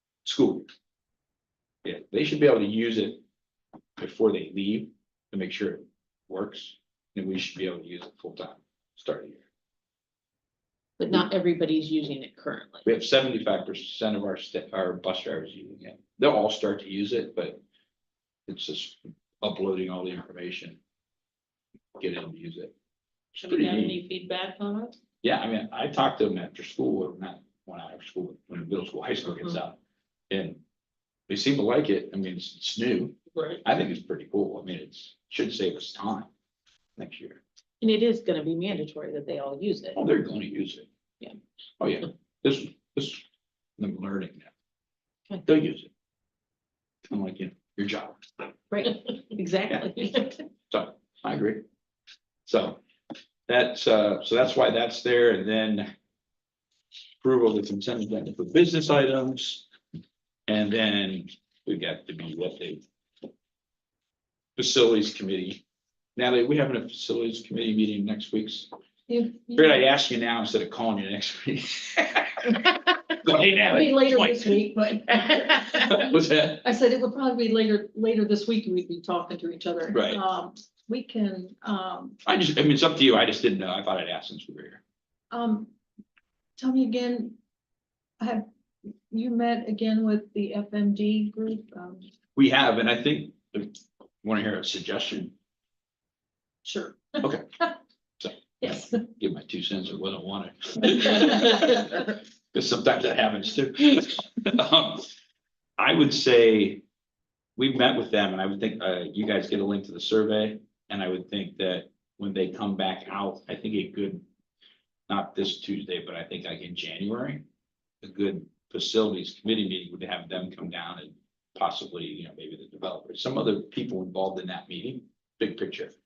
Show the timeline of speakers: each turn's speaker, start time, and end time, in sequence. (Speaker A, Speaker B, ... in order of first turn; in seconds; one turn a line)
Speaker A: 0.2-0.7
Speaker A: 1.8-3.2
Speaker A: 4.0-9.4
Speaker B: 11.0-12.8
Speaker A: 12.8-17.6
Speaker A: 18.5-20.8
Speaker A: 22.0-22.7
Speaker A: 23.4-24.0
Speaker B: 23.4-24.9
Speaker A: 25.2-29.8
Speaker A: 30.3-30.6
Speaker A: 31.3-36.3
Speaker B: 33.3-33.6
Speaker A: 37.0-37.4
Speaker B: 37.8-40.0
Speaker A: 39.9-40.9
Speaker A: 41.8-43.2
Speaker A: 43.8-44.5
Speaker A: 45.4-45.9
Speaker A: 47.1-48.3
Speaker B: 48.7-50.4
Speaker A: 49.7-49.9
Speaker A: 50.7-51.6
Speaker A: 52.5-52.8
Speaker A: 53.5-55.9
Speaker A: 57.2-59.6
Speaker A: 60.5-62.8
Speaker A: 64.5-65.6
Speaker A: 66.2-68.7
Speaker C: 69.1-69.9
Speaker A: 69.5-74.7
Speaker C: 73.6-82.2
Speaker A: 75.6-76.6
Speaker A: 79.9-80.2
Speaker A: 82.2-84.8
Speaker C: 85.3-85.7
Speaker C: 86.6-87.3
Speaker C: 88.2-92.1
Speaker A: 92.3-95.3
Speaker C: 96.6-97.2
Speaker A: 97.2-97.5
Speaker A: 98.2-105.1
Speaker C: 98.6-99.0
Speaker A: 105.8-106.8
Speaker A: 107.6-114.2
Speaker A: 115.1-117.4
Speaker A: 118.0-126.0